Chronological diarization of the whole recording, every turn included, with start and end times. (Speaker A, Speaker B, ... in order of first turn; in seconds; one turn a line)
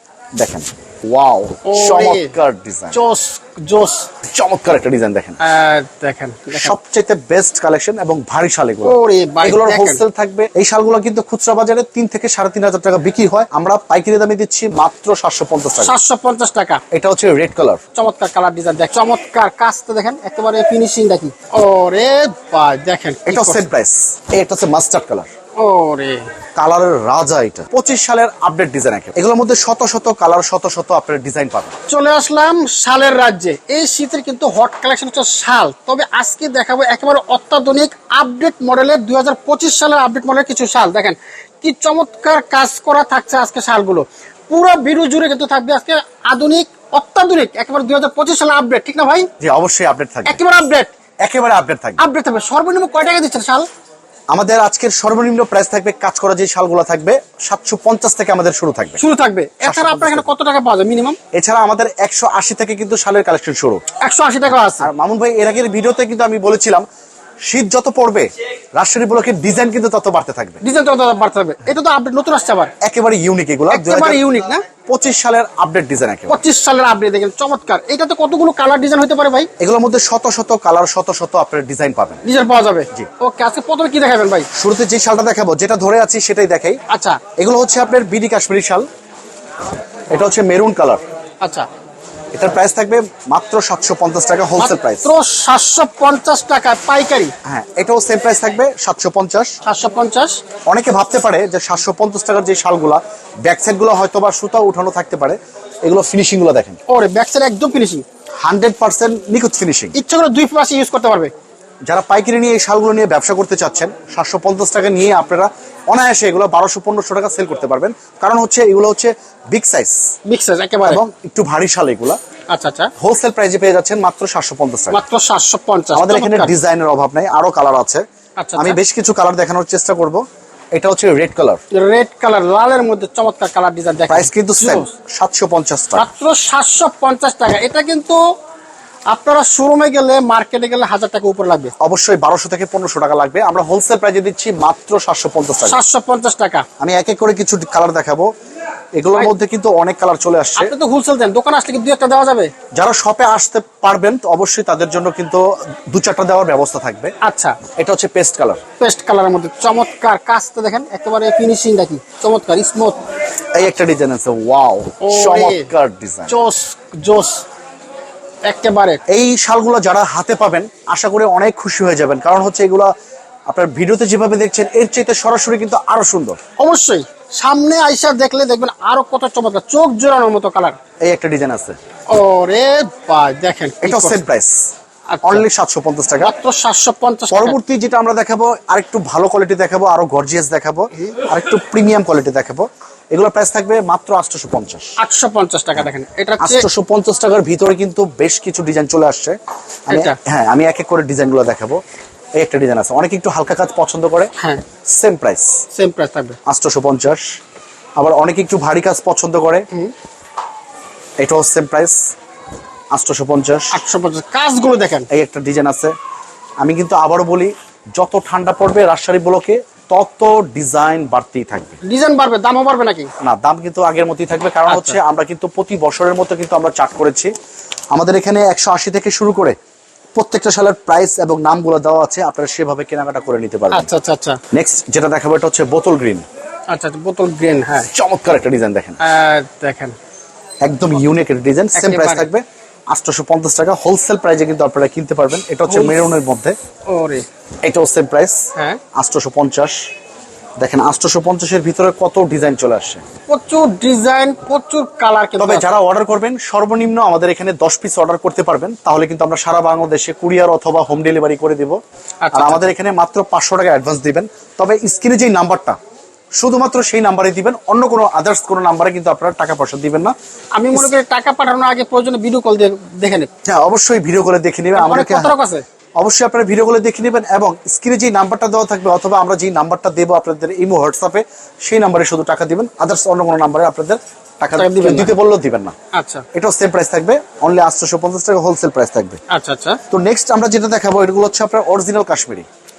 Speaker A: 0.4-3.0
Speaker B: 1.6-2.3
Speaker B: 2.9-4.1
Speaker A: 4.2-5.4
Speaker B: 5.4-6.8
Speaker A: 6.5-15.9
Speaker B: 8.8-10.0
Speaker B: 15.8-16.8
Speaker A: 16.9-17.8
Speaker B: 17.9-23.7
Speaker A: 23.3-25.3
Speaker B: 25.6-26.3
Speaker A: 26.6-31.7
Speaker B: 31.9-49.3
Speaker A: 49.4-50.4
Speaker B: 50.2-50.9
Speaker A: 51.2-52.0
Speaker B: 52.0-53.7
Speaker A: 54.3-59.0
Speaker B: 59.0-61.2
Speaker A: 59.6-60.3
Speaker A: 61.3-63.8
Speaker B: 64.0-64.9
Speaker A: 64.7-66.8
Speaker A: 67.5-70.6
Speaker B: 70.6-72.7
Speaker A: 72.8-74.2
Speaker B: 73.7-74.6
Speaker A: 74.9-76.4
Speaker B: 76.3-79.5
Speaker A: 79.6-82.2
Speaker B: 82.2-84.5
Speaker A: 84.5-86.8
Speaker B: 86.9-87.2
Speaker A: 87.3-88.8
Speaker A: 90.1-91.0
Speaker B: 91.4-91.7
Speaker A: 92.3-95.1
Speaker B: 94.6-97.3
Speaker A: 97.4-99.5
Speaker B: 99.6-100.4
Speaker A: 100.7-106.8
Speaker B: 106.9-108.0
Speaker A: 108.4-109.9
Speaker B: 109.9-111.3
Speaker A: 111.8-120.0
Speaker B: 120.2-121.0
Speaker A: 120.8-122.2
Speaker B: 122.5-122.9
Speaker A: 123.0-125.0
Speaker B: 124.9-126.5
Speaker A: 125.9-128.0
Speaker B: 128.4-128.8
Speaker A: 128.6-130.2
Speaker A: 130.8-131.6
Speaker B: 131.7-134.9
Speaker A: 134.1-136.1
Speaker B: 135.9-138.2
Speaker B: 139.1-141.7
Speaker A: 141.8-145.8
Speaker B: 145.6-146.7
Speaker A: 146.8-148.3
Speaker A: 148.9-150.7
Speaker B: 150.6-152.5
Speaker A: 152.7-157.1
Speaker B: 157.2-157.6
Speaker A: 157.7-158.6
Speaker B: 158.8-163.0
Speaker A: 163.5-166.3
Speaker B: 165.0-165.7
Speaker B: 166.3-167.4
Speaker B: 168.4-169.0
Speaker A: 169.1-172.9
Speaker A: 173.5-176.4
Speaker B: 176.6-180.8
Speaker A: 181.0-181.8
Speaker B: 182.1-184.2
Speaker A: 183.8-184.6
Speaker B: 185.1-185.4
Speaker A: 185.2-186.3
Speaker B: 186.2-187.6
Speaker A: 187.3-194.9
Speaker B: 195.0-196.7
Speaker A: 196.4-199.4
Speaker B: 199.9-200.2
Speaker A: 199.9-201.8
Speaker A: 202.4-204.3
Speaker B: 204.4-204.6
Speaker A: 204.9-205.6
Speaker B: 205.7-206.4
Speaker A: 206.5-207.2
Speaker A: 208.0-209.7
Speaker A: 211.2-212.0
Speaker A: 212.9-213.8
Speaker B: 213.7-215.1
Speaker A: 215.1-215.9
Speaker A: 216.6-221.8
Speaker B: 221.8-223.1
Speaker A: 223.2-227.3
Speaker B: 224.7-225.0
Speaker A: 227.9-229.6
Speaker A: 230.2-233.9
Speaker B: 233.7-234.4
Speaker A: 234.5-236.2
Speaker B: 236.7-237.9
Speaker A: 237.9-239.0
Speaker B: 239.0-239.9
Speaker A: 240.6-246.6
Speaker B: 241.7-242.3
Speaker B: 245.7-246.0
Speaker B: 246.9-247.2
Speaker A: 247.6-248.4
Speaker B: 248.5-248.8
Speaker A: 248.9-249.7
Speaker A: 250.6-253.0
Speaker B: 253.3-255.7
Speaker A: 255.4-261.8
Speaker B: 262.2-262.7
Speaker A: 262.3-265.8
Speaker A: 266.4-270.1
Speaker B: 270.5-273.3
Speaker A: 273.4-275.3
Speaker B: 274.7-275.6
Speaker A: 276.0-285.8
Speaker B: 284.6-285.1
Speaker B: 285.9-286.2
Speaker A: 286.3-289.2
Speaker B: 289.3-289.8
Speaker A: 289.9-292.4